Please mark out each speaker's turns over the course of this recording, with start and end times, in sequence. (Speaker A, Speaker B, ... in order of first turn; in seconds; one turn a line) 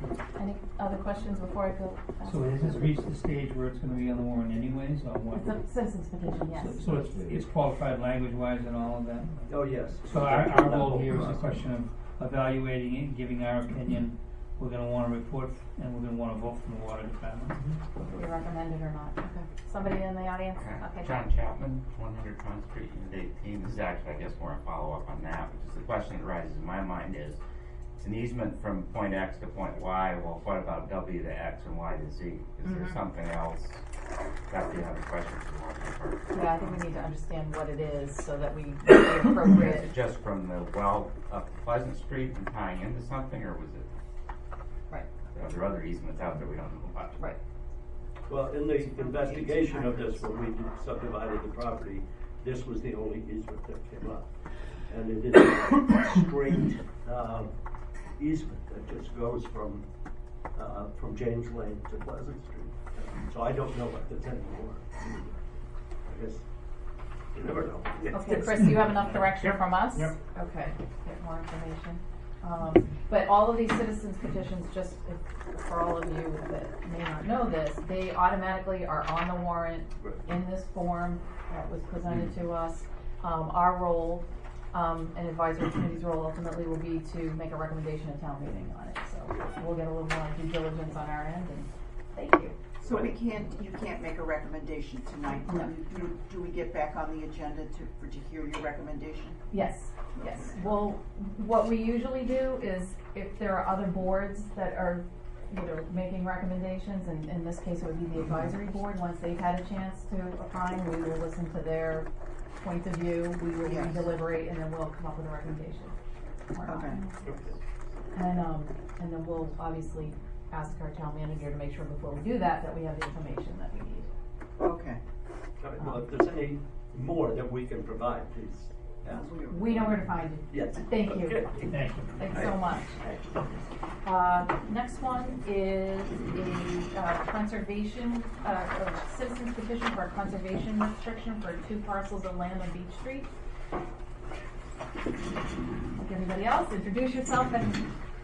Speaker A: 0.3-2.6
Speaker B: 2.2-5.6
Speaker A: 5.3-6.9
Speaker B: 6.5-17.6
Speaker C: 9.5-11.6
Speaker A: 18.1-21.2
Speaker D: 20.6-27.4
Speaker D: 28.0-33.8
Speaker D: 34.5-36.8
Speaker A: 36.3-39.9
Speaker D: 39.5-43.9
Speaker D: 45.3-47.2
Speaker C: 48.3-54.3
Speaker E: 48.8-50.2
Speaker C: 54.9-57.5
Speaker C: 58.2-59.8
Speaker C: 60.5-65.4
Speaker C: 66.0-66.4
Speaker C: 67.3-68.5
Speaker A: 68.1-92.6
Speaker B: 68.5-70.1
Speaker E: 92.8-99.4
Speaker A: 95.5-95.7
Speaker A: 99.5-116.0
Speaker E: 100.1-100.5
Speaker E: 113.6-114.1
Speaker A: 116.5-117.2
Speaker E: 116.6-117.0
Speaker C: 117.2-117.6
Speaker A: 118.1-124.1
Speaker E: 124.6-125.0
Speaker C: 125.6-129.3
Speaker E: 129.0-130.1
Speaker A: 129.5-131.4
Speaker C: 130.5-131.7
Speaker B: 131.7-132.2
Speaker A: 132.2-133.0
Speaker C: 132.3-133.3
Speaker A: 134.0-143.3
Speaker A: 145.9-147.9